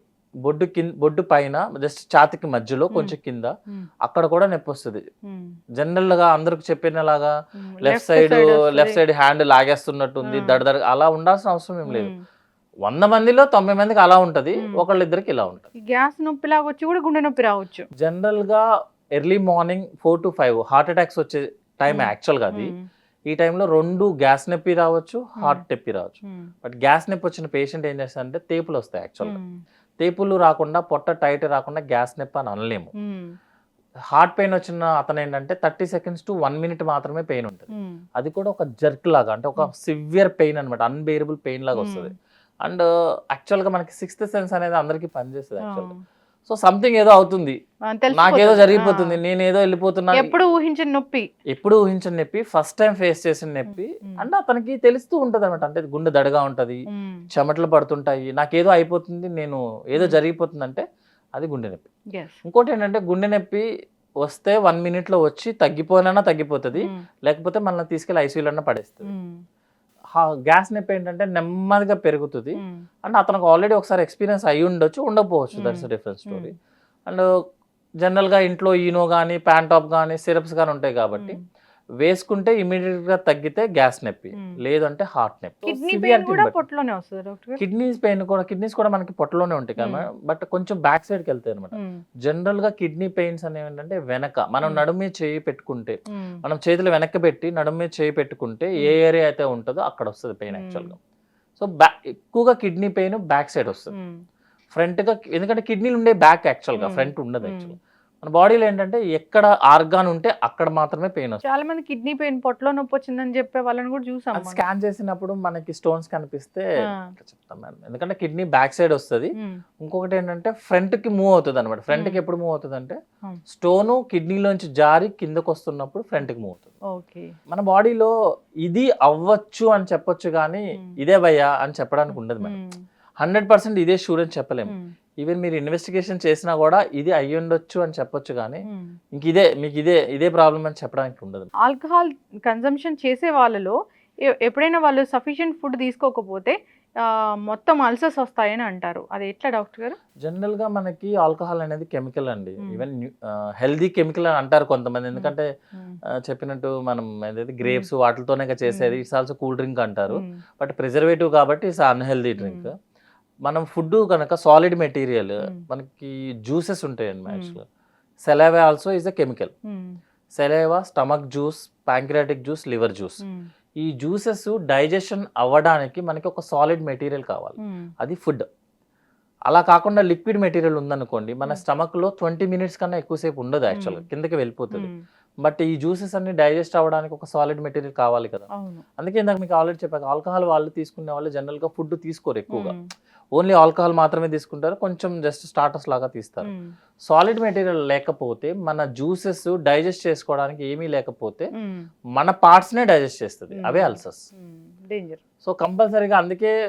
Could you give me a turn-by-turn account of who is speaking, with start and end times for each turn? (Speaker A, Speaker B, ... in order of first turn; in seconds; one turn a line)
Speaker A: 0.5-3.5
Speaker A: 4.1-5.0
Speaker B: 5.3-5.5
Speaker A: 5.8-12.1
Speaker B: 7.6-9.0
Speaker B: 10.3-10.6
Speaker B: 11.9-12.2
Speaker A: 12.9-15.7
Speaker B: 15.7-17.9
Speaker A: 18.0-18.6
Speaker A: 19.2-22.7
Speaker B: 21.9-22.9
Speaker A: 23.3-29.4
Speaker B: 29.2-29.6
Speaker A: 30.0-32.9
Speaker B: 33.0-33.4
Speaker A: 34.1-45.9
Speaker B: 37.7-38.0
Speaker B: 41.8-42.1
Speaker B: 45.6-46.0
Speaker A: 46.5-47.6
Speaker B: 47.9-49.2
Speaker A: 48.1-50.4
Speaker B: 50.1-51.3
Speaker A: 51.5-56.8
Speaker B: 53.7-54.3
Speaker B: 56.9-57.2
Speaker A: 57.3-61.9
Speaker B: 62.1-62.4
Speaker A: 62.4-63.6
Speaker A: 64.2-69.1
Speaker B: 69.0-69.4
Speaker A: 70.1-76.5
Speaker B: 72.5-72.8
Speaker B: 75.6-76.5
Speaker A: 78.0-81.4
Speaker A: 82.0-86.6
Speaker B: 85.6-87.6
Speaker A: 87.6-101.0
Speaker B: 89.8-90.0
Speaker B: 91.7-92.0
Speaker B: 100.5-100.9
Speaker A: 101.6-103.9
Speaker A: 104.7-111.4
Speaker B: 106.8-107.7
Speaker B: 111.4-114.6
Speaker A: 114.3-116.7
Speaker A: 117.2-119.3
Speaker A: 119.8-123.0
Speaker B: 121.9-122.2
Speaker A: 123.5-126.8
Speaker B: 126.9-127.3
Speaker A: 127.5-128.1
Speaker A: 128.7-132.6
Speaker B: 132.1-132.8
Speaker A: 133.2-138.6
Speaker B: 134.7-134.9
Speaker B: 138.7-138.9
Speaker A: 139.2-141.5
Speaker B: 141.6-143.8
Speaker B: 144.4-146.6
Speaker B: 147.1-150.0
Speaker A: 150.2-155.5
Speaker B: 155.2-156.0
Speaker A: 156.2-162.7
Speaker B: 158.7-159.0
Speaker B: 162.4-162.7
Speaker A: 163.5-167.6
Speaker B: 167.3-167.6
Speaker A: 168.3-169.5
Speaker B: 169.7-170.0
Speaker A: 170.4-173.2
Speaker B: 173.2-173.5
Speaker A: 173.8-178.4
Speaker B: 177.6-177.9
Speaker A: 179.5-184.9
Speaker B: 183.7-184.1
Speaker B: 184.7-185.0
Speaker A: 185.4-188.5
Speaker B: 188.5-188.8
Speaker A: 189.0-192.7
Speaker B: 192.5-192.9
Speaker A: 193.3-196.5
Speaker B: 196.4-196.8
Speaker A: 197.1-201.5
Speaker B: 201.6-201.9
Speaker A: 202.2-204.3
Speaker B: 203.6-205.2
Speaker A: 205.4-206.5